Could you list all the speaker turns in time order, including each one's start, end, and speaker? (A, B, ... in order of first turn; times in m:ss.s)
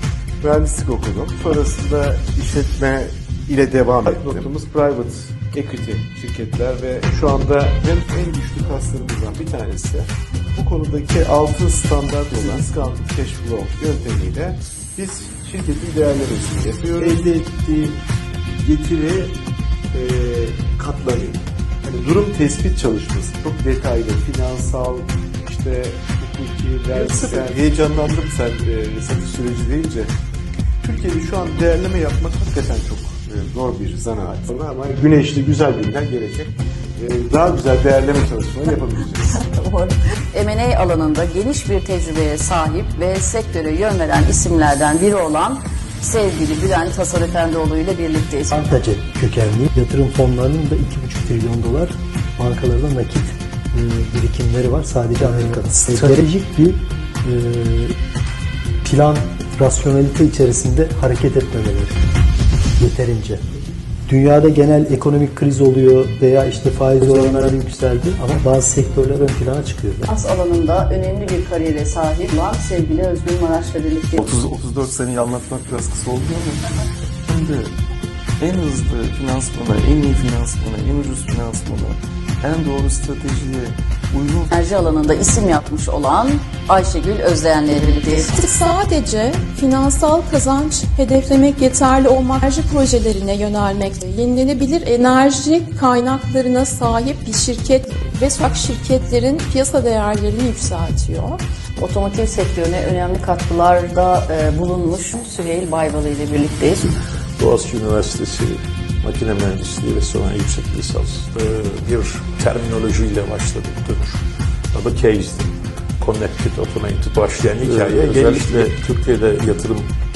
0:00.4-0:17.9 A
0:18.6-0:19.3 A
0:19.9-0:30.1 A
0:27.0-0:27.5 B
0:30.8-0:39.3 A
0:39.3-0:48.6 C
0:48.5-0:58.0 D
0:58.8-1:02.0 D
1:02.8-1:03.4 D
1:04.1-1:10.1 D
1:10.1-1:14.3 C
1:14.2-1:16.6 B
1:17.3-1:17.7 B
1:18.4-1:24.5 B
1:24.5-1:28.3 C
1:28.3-1:41.4 E
1:41.8-1:46.9 C
1:47.4-1:59.9 F